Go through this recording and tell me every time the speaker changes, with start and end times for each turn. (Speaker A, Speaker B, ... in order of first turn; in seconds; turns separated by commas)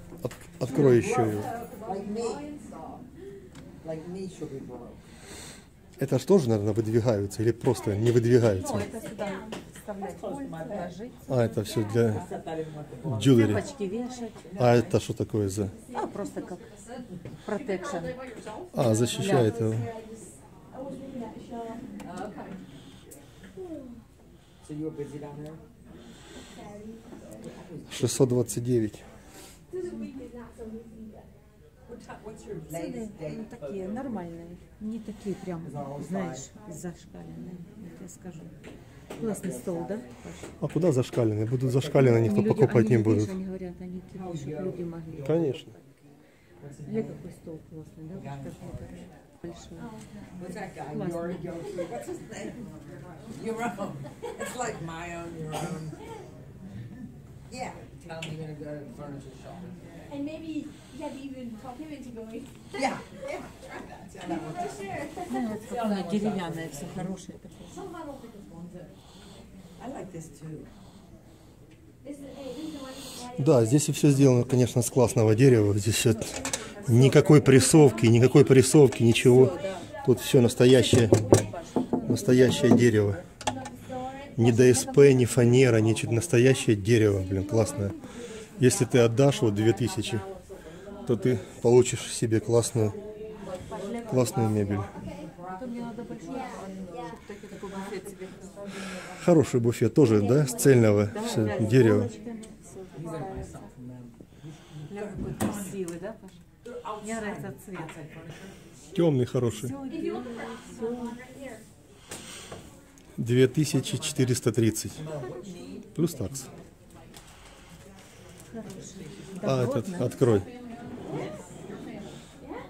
Speaker A: 0.2-1.5, Speaker B: 0.7-2.6, Speaker C: 1.4-2.6, Speaker B: 3.8-5.0, Speaker A: 6.0-8.9, Speaker D: 8.5-11.3, Speaker C: 9.0-9.5, Speaker A: 11.3-12.3, Speaker B: 12.2-13.2, Speaker A: 13.1-13.6, Speaker D: 13.3-14.4, Speaker A: 14.6-15.7, Speaker D: 15.9-16.8, Speaker D: 17.4-18.2, Speaker C: 17.8-22.5, Speaker A: 18.7-19.9, Speaker D: 19.1-19.6, Speaker B: 24.6-25.6, Speaker A: 27.9-29.0, Speaker C: 29.7-31.3, Speaker B: 31.9-33.4, Speaker D: 32.7-38.5, Speaker B: 35.8-36.4, Speaker D: 39.1-40.5, Speaker A: 40.6-43.4, Speaker D: 42.0-45.6, Speaker A: 45.2-45.8, Speaker D: 46.9-49.9, Speaker C: 49.8-50.3, Speaker B: 50.5-52.6, Speaker D: 50.9-51.6, Speaker B: 53.3-55.9, Speaker B: 57.5-59.8, Speaker C: 60.1-63.3, Speaker B: 62.8-63.0, Speaker B: 64.1-65.0, Speaker C: 64.2-65.5, Speaker D: 65.3-67.8, Speaker B: 65.5-66.8, Speaker C: 67.8-68.7, Speaker B: 69.8-70.7, Speaker C: 72.0-73.7, Speaker A: 73.3-81.2, Speaker D: 79.2-79.9, Speaker C: 79.5-80.1, Speaker D: 80.6-83.2, Speaker A: 82.0-83.2, Speaker C: 83.5-85.6, Speaker A: 84.4-88.0, Speaker A: 88.6-90.2, Speaker A: 91.0-93.0, Speaker D: 93.4-94.8, Speaker B: 93.9-94.5, Speaker A: 94.1-94.9, Speaker D: 95.5-98.6, Speaker C: 96.3-97.0, Speaker A: 99.2-102.1, Speaker C: 100.2-101.5, Speaker D: 101.1-103.7, Speaker B: 103.0-103.8, Speaker D: 104.9-106.4, Speaker B: 105.0-105.5, Speaker D: 107.0-108.0, Speaker B: 107.8-108.5, Speaker A: 108.9-109.7, Speaker D: 109.5-111.2, Speaker C: 109.9-111.6, Speaker A: 113.2-115.0, Speaker B: 115.0-115.8, Speaker A: 116.0-116.5, Speaker D: 118.5-120.2, Speaker A: 119.4-120.5